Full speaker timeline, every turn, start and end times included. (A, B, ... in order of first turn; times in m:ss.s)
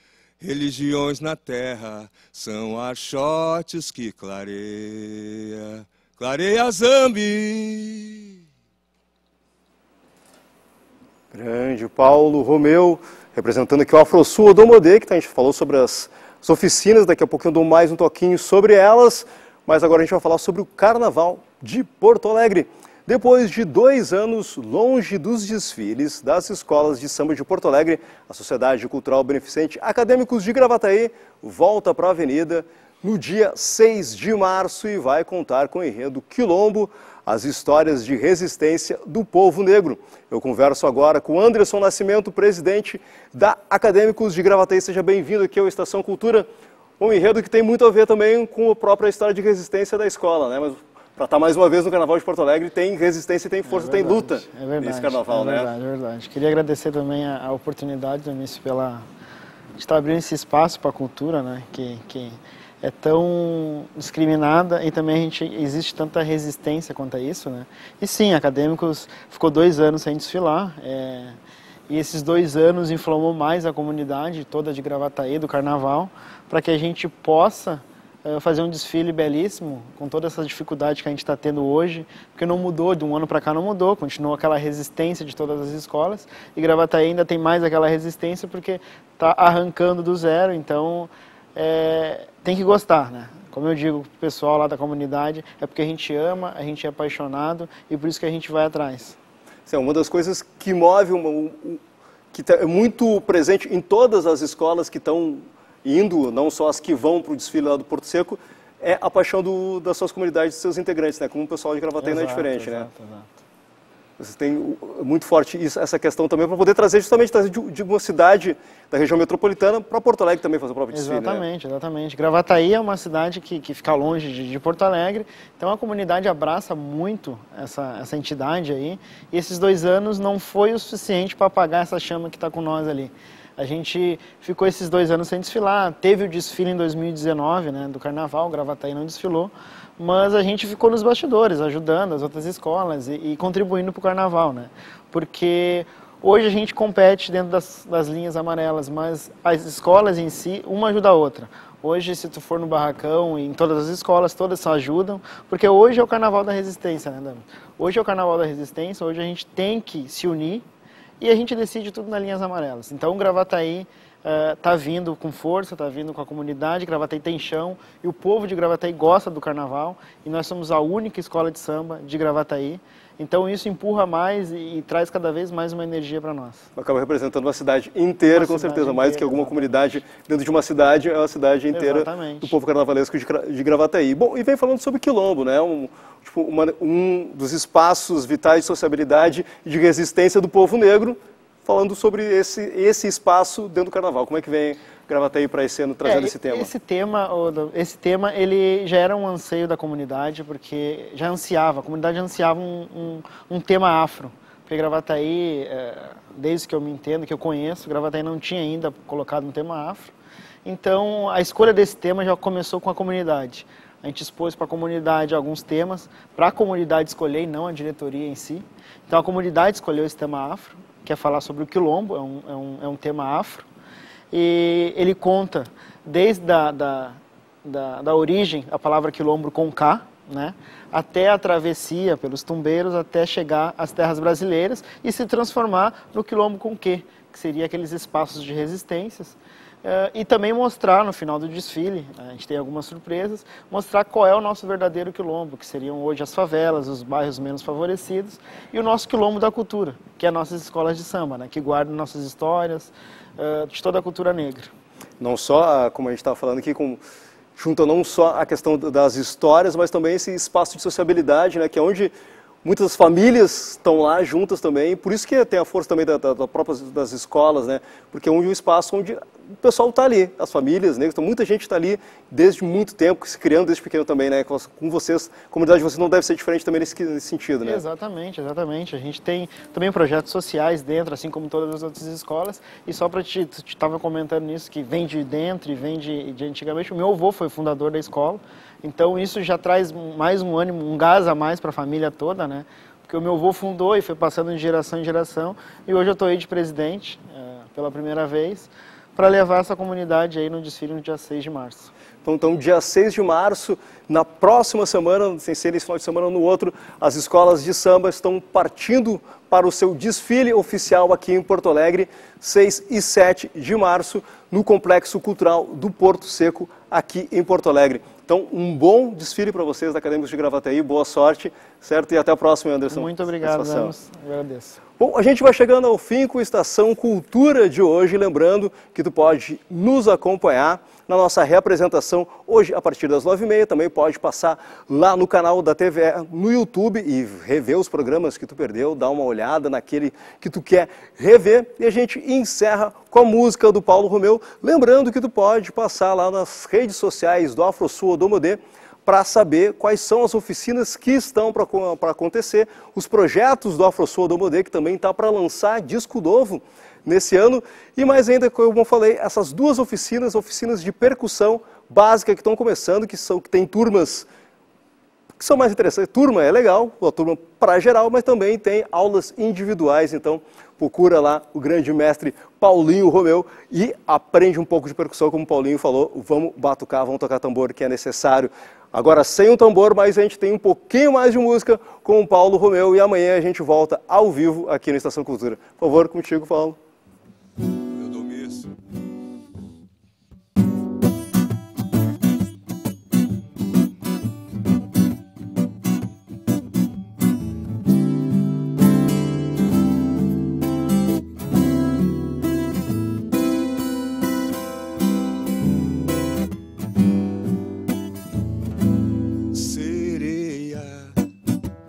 0:00.4-0:08.4 A
0:11.3-0:46.5 B
0:47.0-0:55.7 B
0:53.6-0:59.0 C
0:59.8-1:11.4 C
1:11.9-1:39.2 C
1:39.7-1:41.8 B
1:42.3-1:52.9 B
1:52.0-1:53.4 C
1:54.2-2:01.4 B
2:00.9-2:40.6 C
2:41.2-2:56.6 C
2:56.8-3:16.7 B
2:58.3-3:00.0 C
3:01.7-3:02.6 C
3:16.0-3:30.1 C
3:30.6-3:43.6 C
3:44.3-4:14.7 C
4:15.2-4:17.0 B
4:17.6-4:37.8 B
4:37.6-5:01.9 C
5:02.2-5:23.9 B
5:22.9-5:24.8 C
5:25.0-6:04.3 B
6:05.4-6:26.8 B
6:27.9-6:28.7 A
6:49.5-6:51.1 A